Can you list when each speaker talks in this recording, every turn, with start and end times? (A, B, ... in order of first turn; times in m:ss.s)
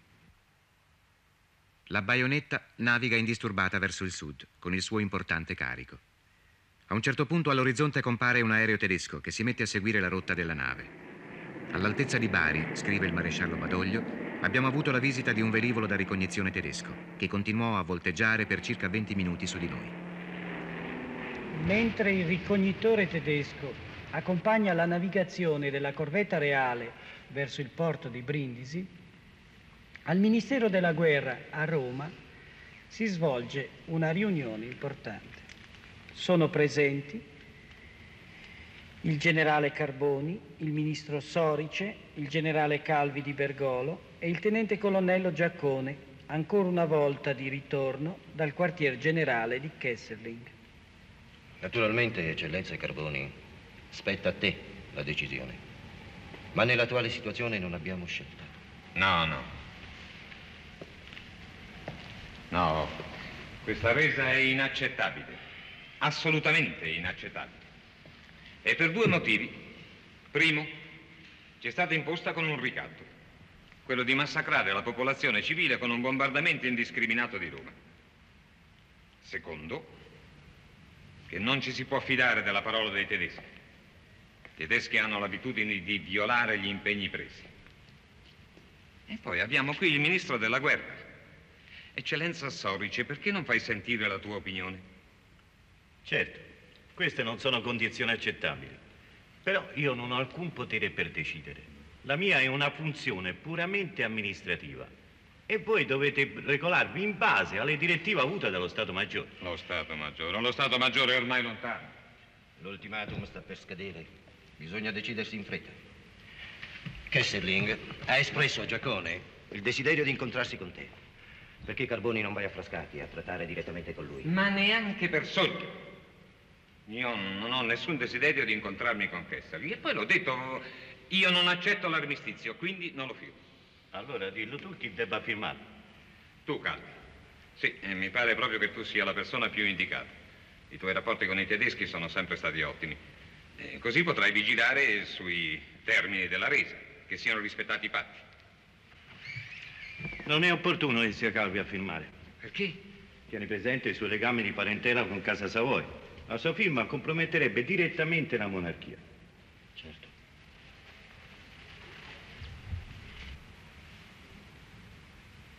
0:01.9-0:06.0 A
0:06.9-0:10.9 A
0:11.7-0:20.0 A
0:21.5-0:28.9 B
0:30.1-0:32.2 B
0:32.9-0:35.5 B
0:36.1-0:37.3 B
0:39.0-0:50.5 B
0:51.6-0:53.4 C
0:53.9-0:55.6 C
0:56.5-0:58.5 C
0:59.0-0:59.5 D
1:02.5-1:03.1 D
1:03.6-1:05.4 D
1:06.0-1:07.6 D
1:08.6-1:09.7 D
1:10.3-1:10.8 D
1:11.6-1:13.1 D
1:13.8-1:17.8 D
1:19.2-1:19.9 D
1:21.3-1:23.4 D
1:24.6-1:27.5 D
1:29.1-1:31.0 D
1:32.0-1:34.8 D
1:36.0-1:38.8 E
1:39.4-1:44.9 E
1:45.5-1:49.3 E
1:49.4-1:51.9 D
1:52.6-1:55.8 C
1:57.1-2:00.9 C
2:01.6-2:04.3 C
2:04.2-2:05.8 D
2:06.9-2:13.4 D
2:13.9-2:15.7 E
2:16.5-2:16.9 D
2:17.6-2:20.1 D
2:20.7-2:23.0 D
2:23.6-2:28.2 D
2:30.2-2:32.1 E
2:32.4-2:32.8 D
2:33.3-2:39.0 E
2:39.8-2:40.1 E